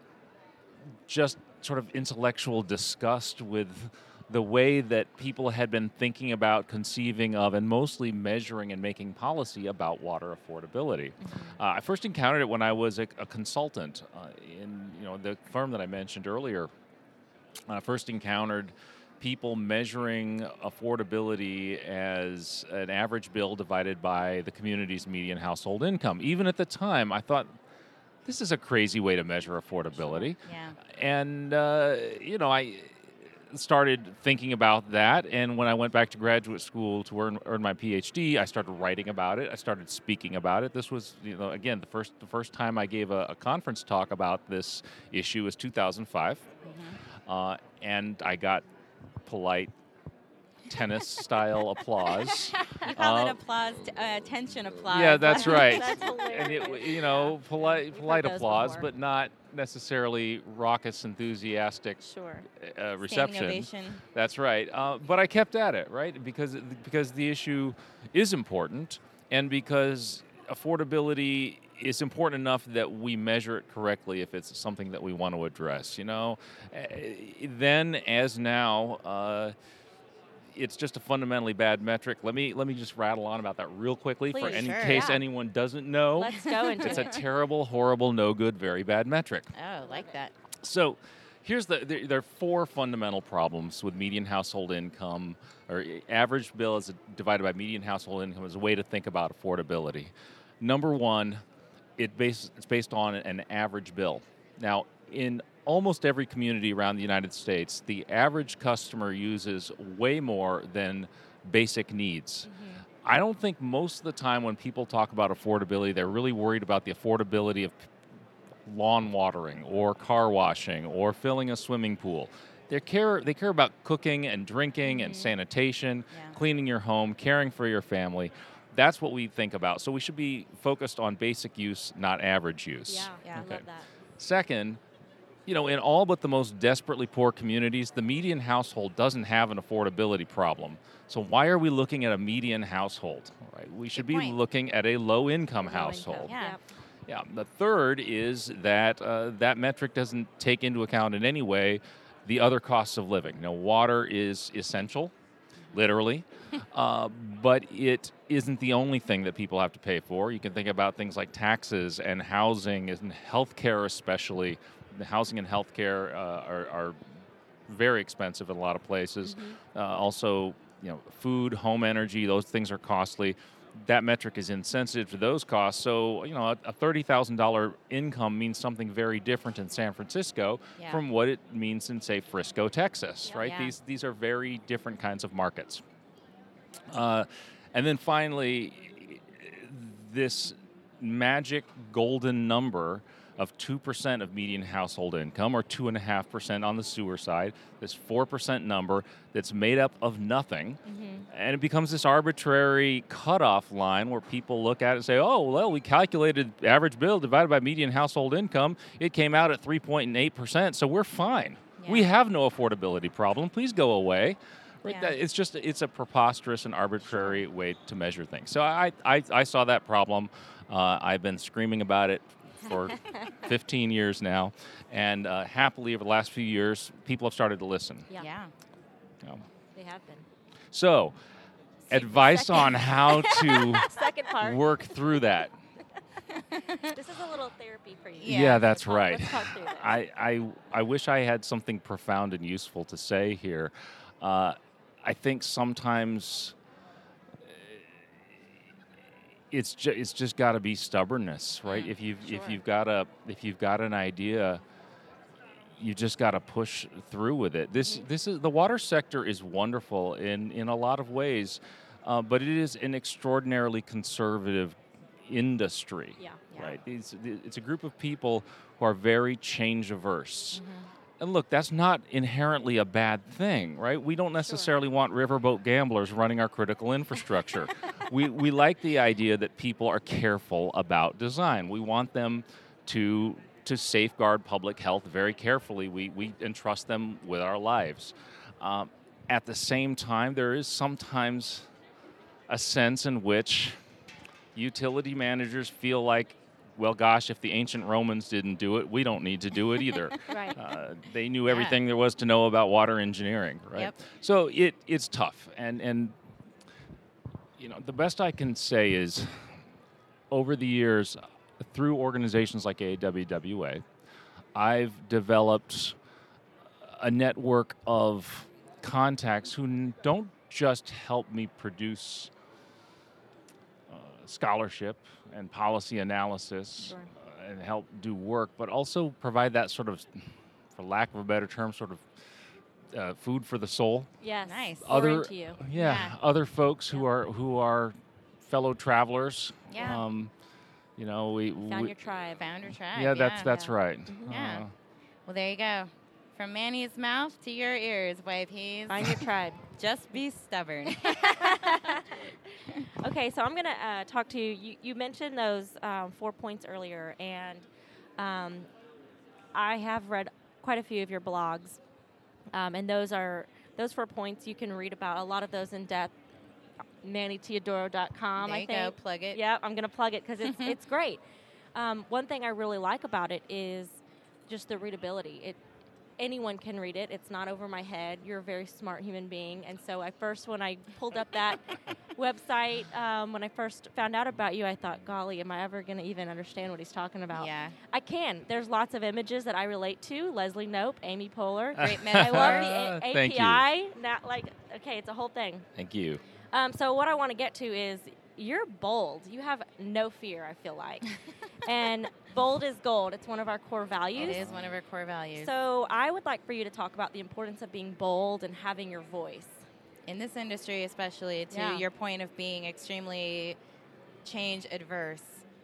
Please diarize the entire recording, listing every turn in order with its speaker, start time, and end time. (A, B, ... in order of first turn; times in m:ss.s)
0:01.1-0:16.7 A
0:11.2-0:11.5 B
0:17.7-0:27.5 A
0:28.3-0:46.5 A
0:30.4-0:30.8 C
0:46.6-0:47.0 C
0:47.3-0:48.6 A
0:49.2-0:49.7 A
0:50.7-0:53.4 A
0:52.8-0:56.0 C
0:54.9-1:02.0 A
0:55.1-0:58.9 B
1:02.0-1:02.5 B
1:02.6-1:19.6 A
1:03.0-1:04.0 C
1:20.5-1:29.5 A
1:24.3-1:25.2 B
1:24.3-1:25.1 C
1:26.2-1:27.2 B
1:29.6-1:30.3 C
1:30.6-1:41.4 A
1:42.0-1:52.5 A
1:52.5-1:52.8 B
1:53.0-1:57.9 A
1:58.7-2:13.6 A
2:04.8-2:05.4 B
2:12.9-2:13.9 B
2:14.2-2:14.8 A
2:15.5-2:26.3 A
2:24.0-2:24.4 C
2:25.6-2:26.6 B
2:26.3-2:26.6 C
2:27.1-2:35.1 A
2:35.7-2:47.0 A
2:47.7-3:05.8 A
2:49.2-2:49.6 B
3:00.8-3:01.0 C
3:03.2-3:03.5 B
3:03.4-3:03.7 C
3:06.9-3:48.1 A
3:20.9-3:21.3 B
3:31.8-3:32.1 C
3:48.2-3:48.5 C
3:49.8-3:50.3 B
3:50.7-3:51.2 A
3:51.9-3:54.8 B
3:51.9-3:55.6 A
3:56.5-3:56.9 C
3:56.7-4:00.0 B
3:58.2-3:58.8 C
3:58.3-4:06.6 A
4:07.4-4:07.9 A
4:09.5-4:14.6 A
4:11.7-4:12.6 B
4:15.8-4:30.6 A
4:26.5-4:26.8 C
4:30.5-4:30.9 C
4:31.2-4:51.7 A
4:34.4-4:34.7 B
4:52.5-4:53.8 A
4:54.5-5:06.2 A
5:00.3-5:00.6 B
5:07.6-5:09.6 A
5:10.3-5:13.8 A
5:14.6-5:16.0 A
5:16.8-5:22.3 A
5:23.9-5:32.1 A
5:32.9-5:34.1 A
5:34.2-5:35.6 B
5:34.4-5:35.0 C
5:34.8-5:40.3 A
5:35.7-5:36.2 C
5:39.7-5:40.0 C
5:41.0-5:41.9 A
5:41.6-5:42.4 B
5:42.4-5:43.7 C
5:42.9-5:44.7 A
5:43.5-5:44.3 B
5:44.3-5:44.6 C
5:45.3-5:52.0 C
5:48.9-5:49.6 B
5:51.0-5:52.2 B
5:53.0-5:57.7 B
5:58.2-5:58.7 B
5:59.5-6:01.8 B
6:02.5-6:06.1 B
6:07.0-6:11.2 B
6:08.4-6:09.4 C
6:11.8-6:15.6 B
6:16.2-6:35.7 B
6:27.3-6:27.8 C
6:31.8-6:32.7 C
6:31.8-6:33.6 A
6:35.8-6:36.2 A
6:36.5-6:44.4 B
6:44.2-6:44.7 A
6:44.2-6:45.5 C
6:45.4-6:49.6 B
6:50.1-6:53.6 C
6:51.5-6:51.8 B
6:54.2-6:55.4 C